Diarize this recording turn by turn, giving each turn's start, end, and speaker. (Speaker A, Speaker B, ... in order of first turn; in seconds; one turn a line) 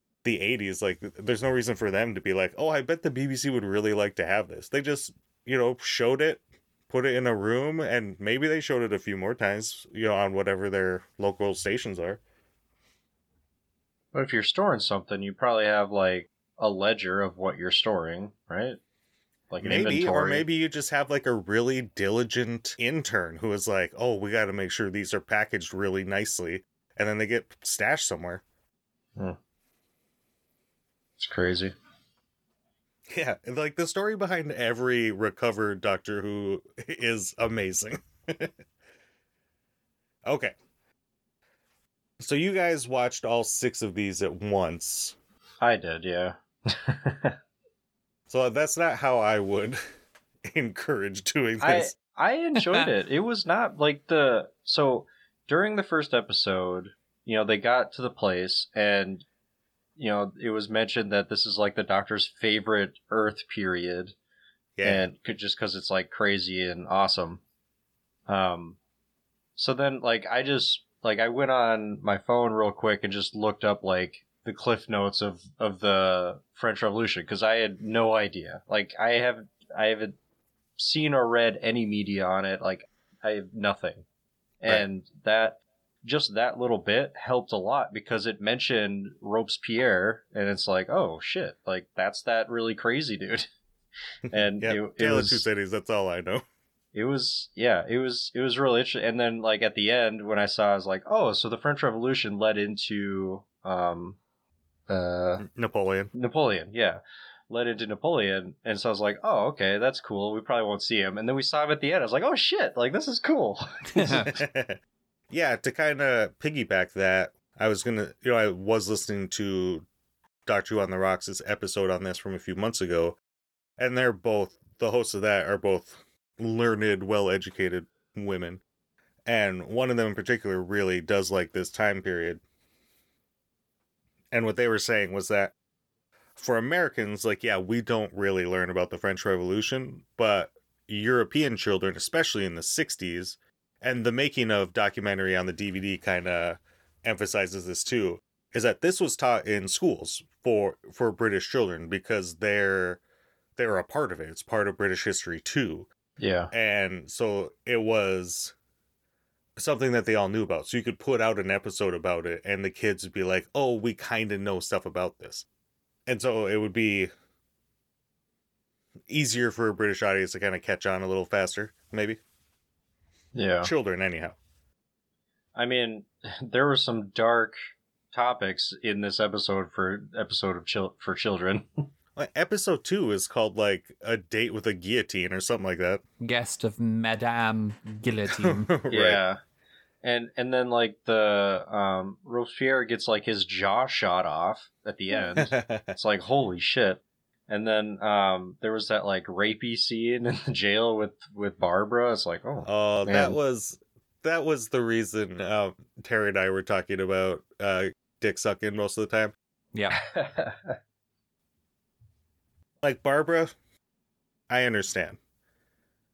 Speaker A: 0.2-12.2
Speaker B: 14.1-18.8
Speaker B: 19.5-20.4
Speaker A: 19.6-28.4
Speaker B: 31.2-31.7
Speaker A: 33.1-38.5
Speaker A: 40.2-40.5
Speaker A: 42.2-45.2
Speaker B: 45.6-47.4
Speaker A: 48.3-49.8
Speaker A: 50.5-51.9
Speaker B: 51.6-59.2
Speaker C: 52.6-52.9
Speaker B: 60.0-64.2
Speaker A: 64.8-65.1
Speaker B: 64.8-67.4
Speaker B: 68.3-68.8
Speaker B: 69.6-80.2
Speaker B: 80.8-84.0
Speaker B: 84.6-93.5
Speaker B: 94.3-95.4
Speaker A: 94.3-96.5
Speaker B: 96.9-104.2
Speaker B: 104.9-105.5
Speaker A: 105.4-106.1
Speaker B: 106.1-114.4
Speaker C: 113.9-114.3
Speaker A: 114.1-114.8
Speaker A: 115.3-119.8
Speaker A: 120.5-123.2
Speaker A: 123.8-128.6
Speaker A: 129.3-132.4
Speaker A: 134.3-135.5
Speaker A: 136.4-153.0
Speaker A: 153.6-155.9
Speaker B: 156.2-156.5
Speaker A: 156.5-158.5
Speaker A: 159.6-165.5
Speaker A: 166.1-167.1
Speaker A: 169.1-172.2
Speaker B: 173.3-173.7
Speaker A: 173.6-174.4
Speaker B: 175.6-177.6
Speaker B: 178.1-181.9
Speaker A: 182.2-186.0
Speaker C: 186.2-188.7
Speaker A: 188.3-189.2
Speaker B: 188.9-189.4
Speaker B: 190.0-203.3
Speaker A: 195.4-195.9
Speaker A: 202.7-209.3
Speaker C: 209.7-210.0
Speaker B: 209.9-210.8
Speaker A: 212.8-213.6
Speaker A: 214.5-215.2